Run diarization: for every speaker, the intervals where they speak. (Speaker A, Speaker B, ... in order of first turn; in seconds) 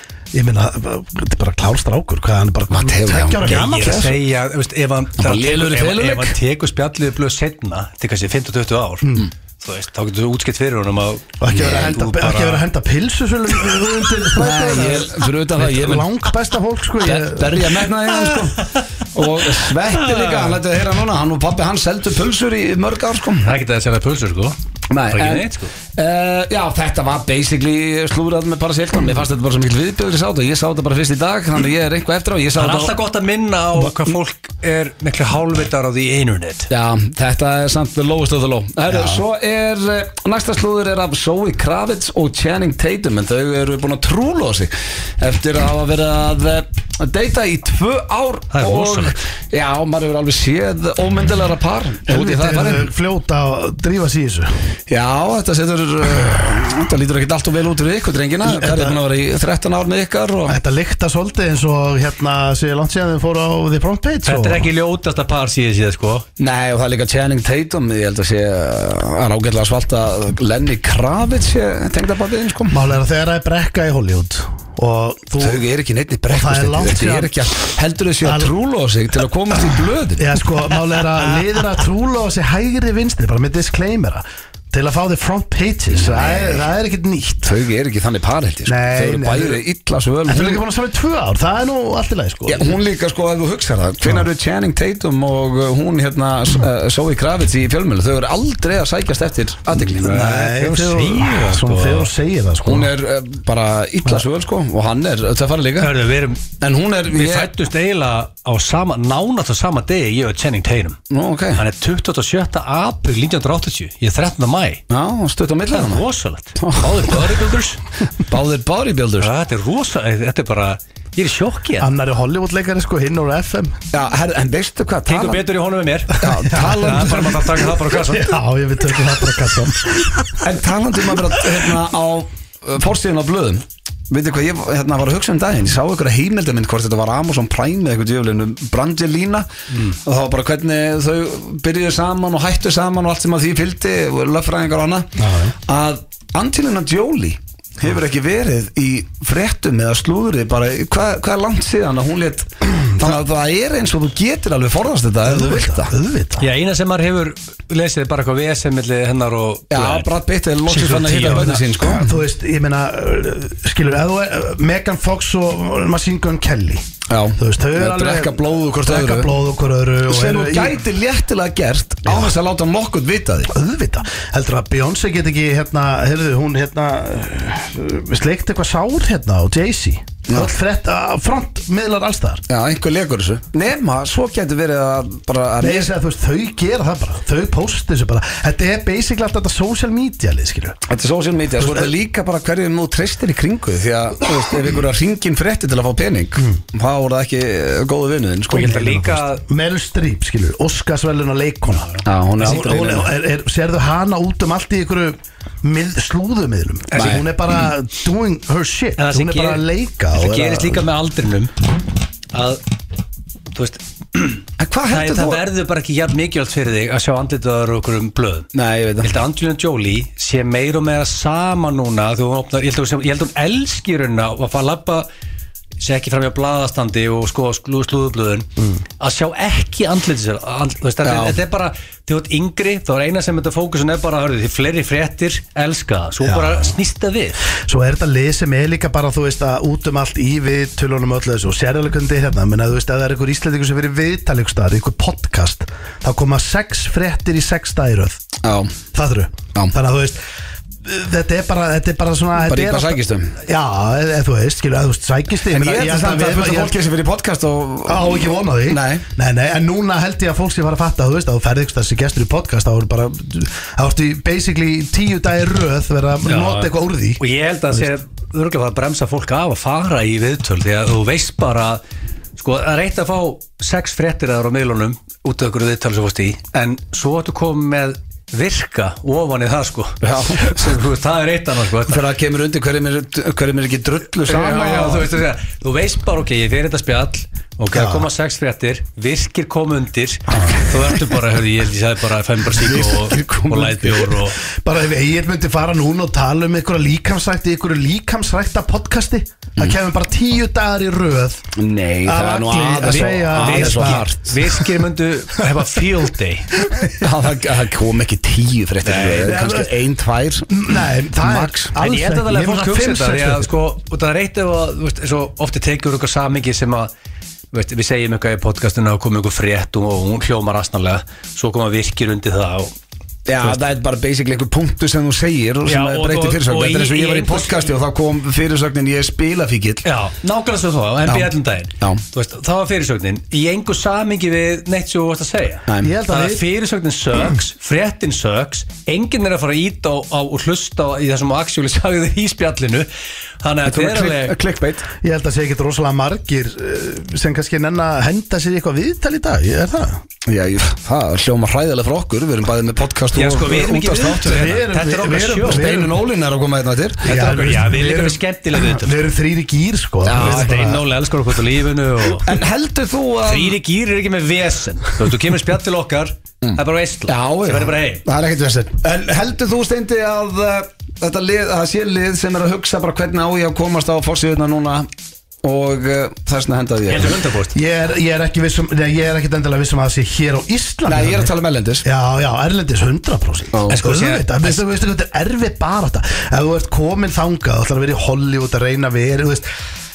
Speaker A: 0.3-4.1, 9.0-9.3, 11.4-17.9, 38.9-39.2, 52.0-54.5, 58.4-59.0, 60.5-64.7, 72.7-75.6, 76.3-77.3, 78.2-78.5, 80.2-87.5, 88.7-89.6, 90.2-92.8, 99.8-102.9, 121.8-123.8, 126.1-130.4, 145.2-145.5, 155.2-156.4, 161.9-170.8, 172.1-172.3, 173.5-182.4, 185.6-190.8, 191.6-191.9, 198.6-210.8, 236.2-236.8, 237.6-248.2, 248.9-250.2, 250.8-256.8, 257.9-267.2, 287.7-288.1, 294.5-301.4, 302.0-304.1, 309.2-309.7, 310.5-313.5, 335.8-336.4, 345.0-350.0, 354.2-355.9, 357.0-360.8, 377.5-381.3, 381.8-389.5
Speaker B: 2.7-4.1, 5.2-6.4, 11.5-12.3, 14.3-16.1, 17.0-23.5, 24.9-33.0, 36.7-52.9, 54.9-60.6, 66.4-72.8, 75.4-80.3, 85.9-86.6, 87.4-90.6, 92.5-100.3, 102.6-105.9, 106.6-107.5, 111.1-111.6, 114.9-116.0, 116.6-117.3, 118.2-119.3, 123.9-125.4, 126.2-127.5, 130.4-145.2, 145.7-155.9, 159.7-162.1, 167.1-169.3, 170.1-173.5, 182.5-185.9, 190.9-199.1, 202.0-203.1, 206.9-207.2, 214.6-215.4, 218.5-219.1, 231.0-231.4, 248.4-248.8, 252.4-253.3, 255.5-259.0, 280.0-280.8, 281.9-285.1, 292.5-294.2, 301.6-304.3, 306.9-310.6, 311.2-311.7, 323.3-329.8, 331.0-332.0, 335.7-335.9, 343.6-344.9, 350.2-354.5, 355.4-357.0, 360.0-360.8, 362.2-363.6, 366.4-374.9, 375.4-377.2, 380.9-381.8, 383.5-383.8
Speaker C: 3.4-12.6, 19.9-20.6, 23.4-24.6, 25.1-25.7, 32.6-36.7, 48.5-49.1, 64.2-66.2, 100.0-102.1, 105.8-106.4, 107.1-111.0, 111.5-114.8, 115.7-117.8, 119.2-121.9, 125.1-128.3, 156.4-160.1, 160.7-161.9, 198.5-199.4, 201.8-202.8, 206.9-207.2, 209.0-211.5, 212.3-212.6, 213.5-218.5, 219.0-225.1, 225.8-228.5, 229.0-237.4, 266.2-271.8, 272.4-282.0, 284.2-294.4, 302.8-306.6, 308.8-309.3, 311.8-316.9, 317.5-322.7, 325.6-327.7, 329.8-342.9, 343.4-344.3, 353.1-355.6, 357.0-359.0, 360.1-362.3, 363.2-368.0, 376.9-377.5, 383.7-384.6